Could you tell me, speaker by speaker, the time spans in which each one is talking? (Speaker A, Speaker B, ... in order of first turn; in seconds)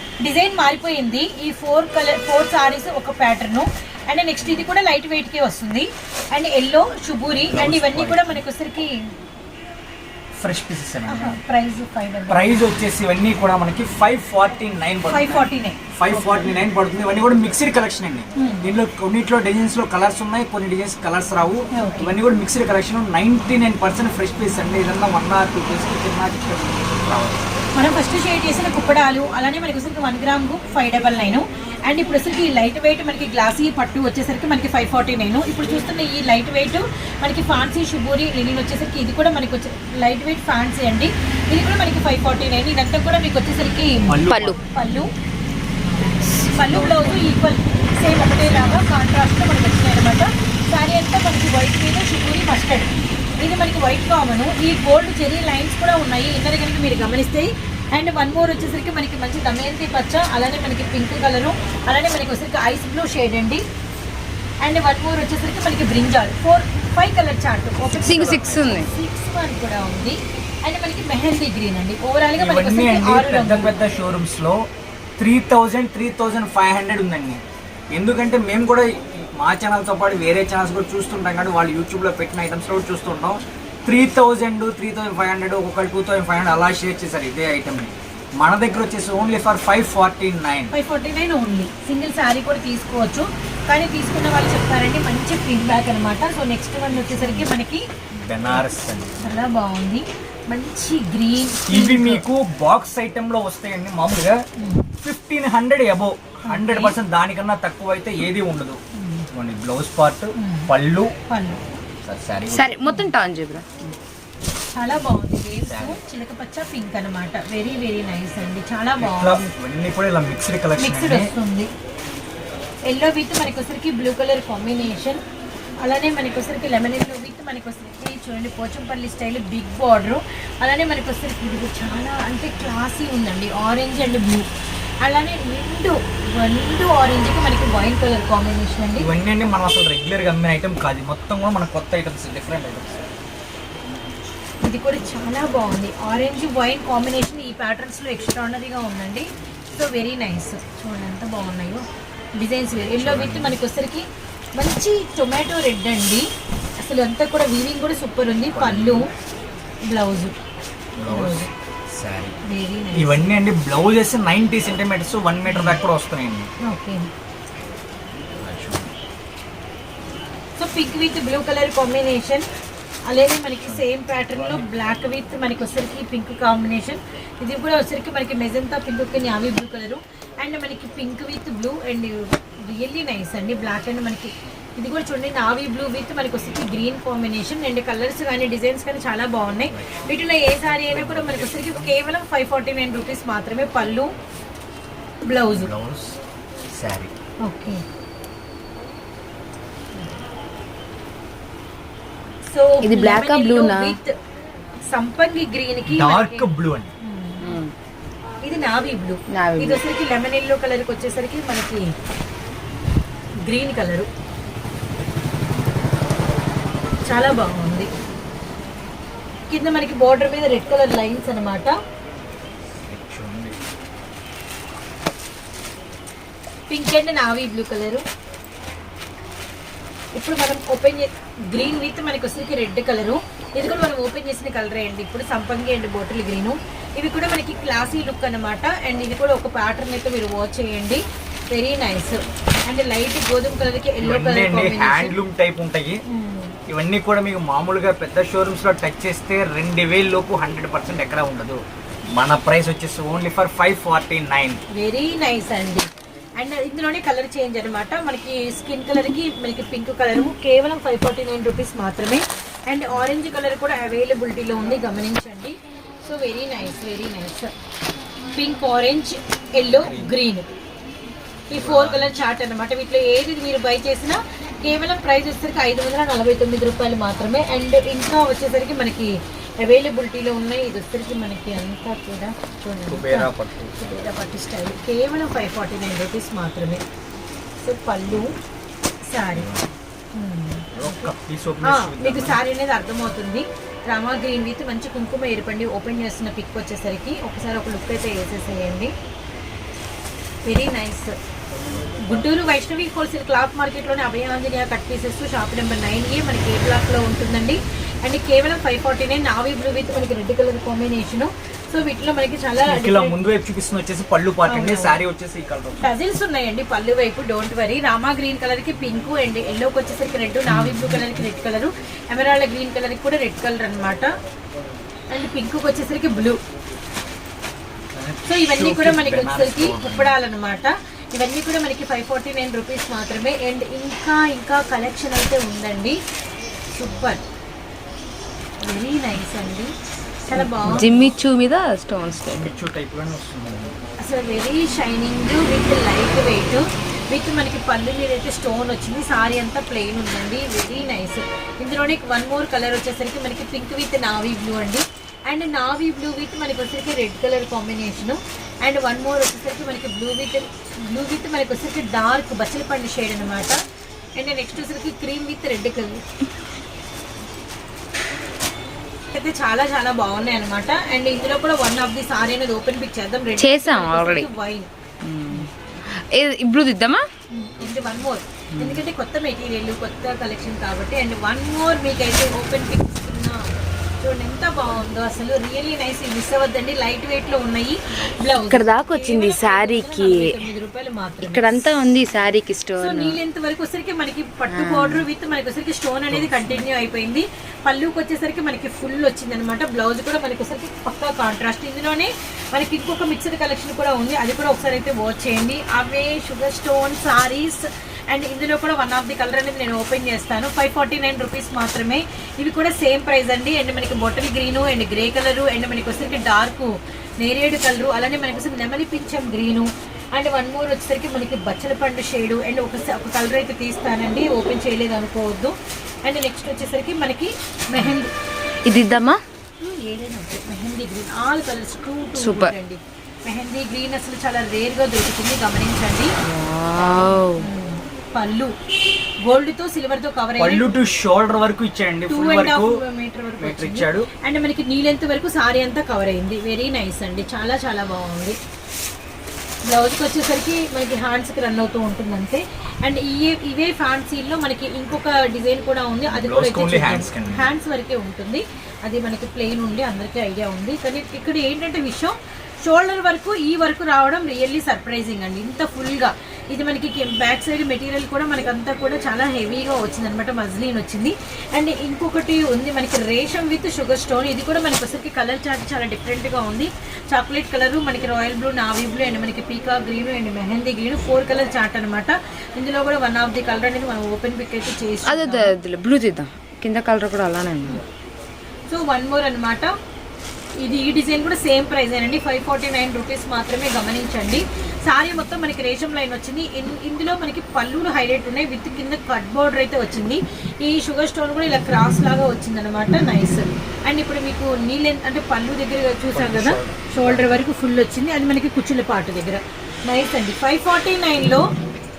Speaker A: 0.2-9.1, 11.1-12.5, 15.1-16.5, 18.4-18.7, 21.7-22.1, 27.7-45.1, 46.5-63.6, 64.6-73.7, 90.7-97.8, 99.2-102.2, 104.6-104.9, 106.5-107.0, 108.9-109.3, 110.3-110.7, 111.3-111.6, 112.8-113.1, 114.7-119.4, 120.8-121.7, 122.8-125.2, 125.8-134.5, 135.0-139.1, 144.6-151.8, 152.4-156.3, 156.8-159.1, 159.8-160.3, 161.1-161.5, 162.4-163.3, 165.5-165.8, 166.6-167.1, 170.6-172.4, 173.1-194.1, 195.2-195.7, 197.4-197.8, 202.5-204.1, 204.9-207.6, 208.4-211.9, 213.4-214.1, 217.1-217.9, 219.5-221.7, 226.7-228.0, 230.1-245.1, 246.1-246.6, 254.7-267.5, 268.3-270.5, 271.5-286.8, 287.6-288.3, 289.1-289.5, 290.1-291.1, 291.6-298.9, 300.4-301.1, 302.0-313.1, 314.4-315.0, 315.8-324.1, 325.1-326.4, 328.3-336.0, 336.7-337.2, 338.6-339.7, 340.3-341.1, 344.0-363.6, 364.2-366.0, 369.1-374.7, 377.3-391.7, 392.8-428.1, 429.6-436.1, 436.9-438.5, 439.2-440.7, 442.1-448.4, 449.6-485.5, 488.7-489.7, 490.6-511.4
Speaker B: 7.4-8.4, 10.4-11.4, 12.3-27.7, 44.1-44.6, 46.0-47.4, 48.2-48.9, 68.0-68.7, 72.4-77.4, 77.9-90.7, 96.9-97.5, 98.1-99.3, 101.7-104.4, 105.0-108.8, 109.3-111.1, 112.0-112.7, 115.6-116.0, 119.0-121.3, 139.0-143.1, 152.7-153.6, 158.5-159.1, 161.0-162.4, 162.9-166.5, 168.4-168.9, 189.7-191.9, 195.5-196.2, 196.7-197.1, 205.9-206.9, 222.8-223.6, 244.0-246.0, 246.7-254.6, 269.7-270.1, 271.5-272.1, 282.9-283.8, 289.3-289.7, 290.7-292.4, 312.6-315.9, 320.6-321.1, 327.9-330.2, 342.3-343.8, 396.1-396.6, 440.4-442.8, 443.4-444.1, 456.1-457.5, 506.1-507.4
Speaker C: 44.3-44.5, 68.0-68.9, 112.5-113.9, 202.8-203.9, 207.4-207.7, 209.3-209.8, 340.4-342.5, 373.4-374.3, 375.0-377.1, 378.6-378.8, 388.4-390.3, 391.2-393.2, 394.5-395.1, 428.6-429.2, 432.2-432.5, 436.2-437.5, 485.1-487.8